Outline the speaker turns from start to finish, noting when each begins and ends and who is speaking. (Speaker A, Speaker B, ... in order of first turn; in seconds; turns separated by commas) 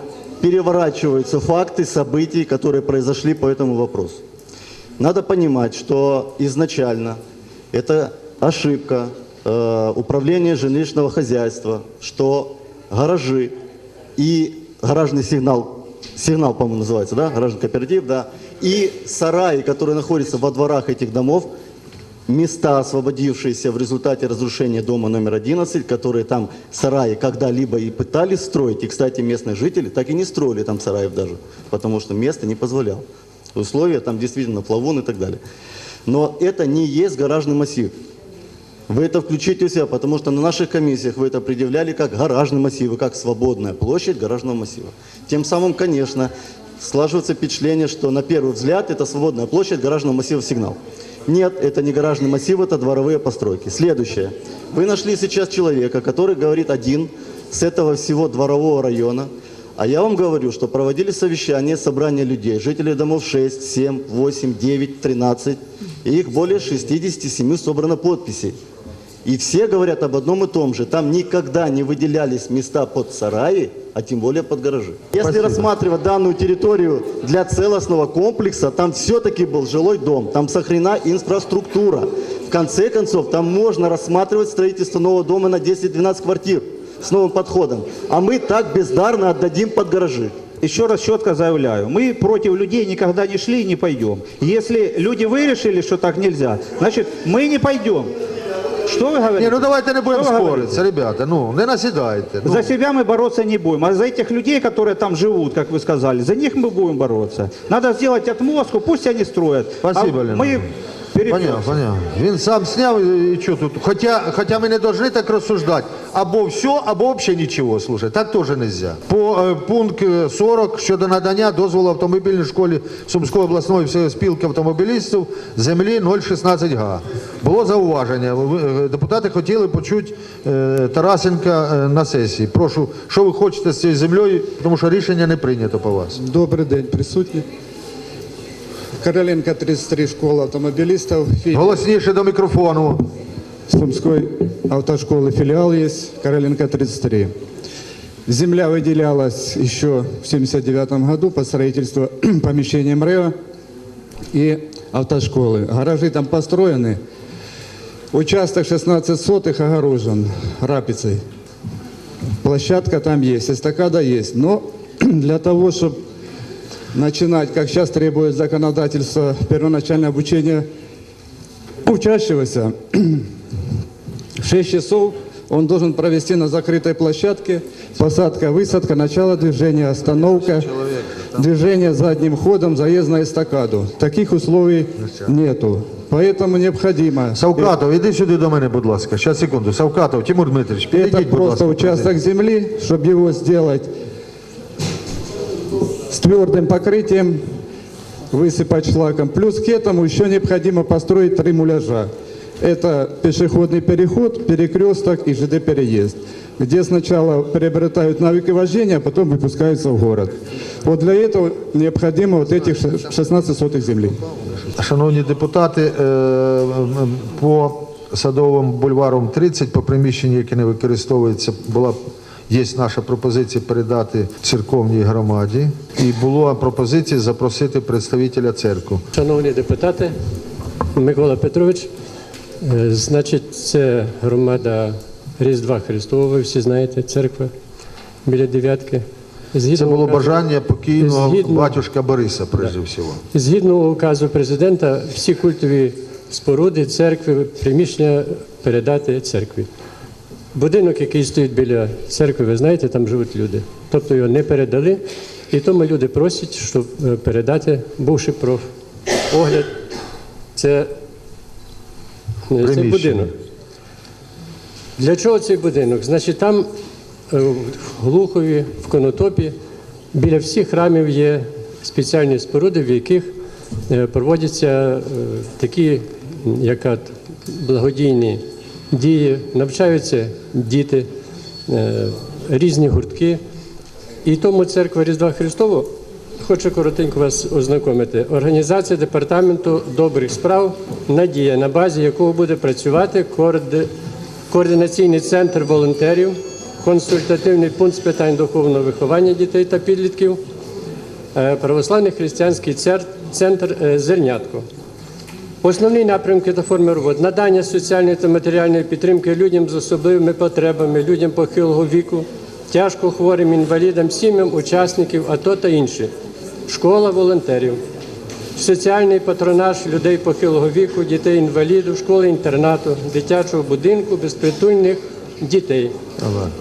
Speaker A: 0.4-4.2, Speaker A: 5.0-7.2, Speaker A: 7.7-13.6, Speaker A: 14.2-21.5, Speaker A: 22.3-35.4, Speaker A: 36.1-37.9, Speaker A: 38.9-68.6, Speaker A: 69.2-90.3, Speaker B: 75.2-75.7, Speaker C: 90.6-98.1, Speaker C: 98.9-100.8, Speaker B: 99.4-102.7, Speaker C: 102.5-111.8, Speaker B: 109.8-110.7, Speaker B: 111.3-136.2, Speaker D: 136.2-137.4, Speaker D: 139.0-141.8, Speaker B: 141.5-143.0, Speaker D: 143.7-147.3, Speaker D: 148.3-153.3, Speaker D: 154.3-157.0, Speaker D: 158.1-161.2, Speaker D: 162.4-166.0, Speaker D: 166.9-170.7, Speaker D: 171.8-173.2, Speaker D: 174.4-187.7, Speaker B: 187.3-192.1, Speaker D: 190.9-193.9, Speaker D: 196.1-197.5, Speaker D: 198.3-214.2, Speaker B: 214.7-222.0, Speaker B: 222.5-229.0, Speaker E: 229.1-230.1, Speaker E: 230.9-231.9, Speaker E: 232.6-237.5, Speaker E: 238.2-241.9, Speaker B: 239.7-243.2, Speaker E: 243.3-249.7, Speaker E: 250.5-258.6, Speaker E: 259.3-259.7, Speaker E: 260.6-260.9, Speaker E: 262.5-263.3, Speaker B: 262.6-263.3, Speaker E: 265.0-266.7, Speaker E: 267.3-269.6, Speaker E: 270.1-273.3, Speaker E: 273.9-281.1, Speaker E: 281.7-283.4, Speaker E: 284.2-293.9, Speaker E: 294.5-300.4, Speaker E: 301.3-304.7, Speaker E: 305.6-316.1, Speaker E: 316.7-317.8, Speaker E: 318.6-325.9, Speaker B: 326.2-326.5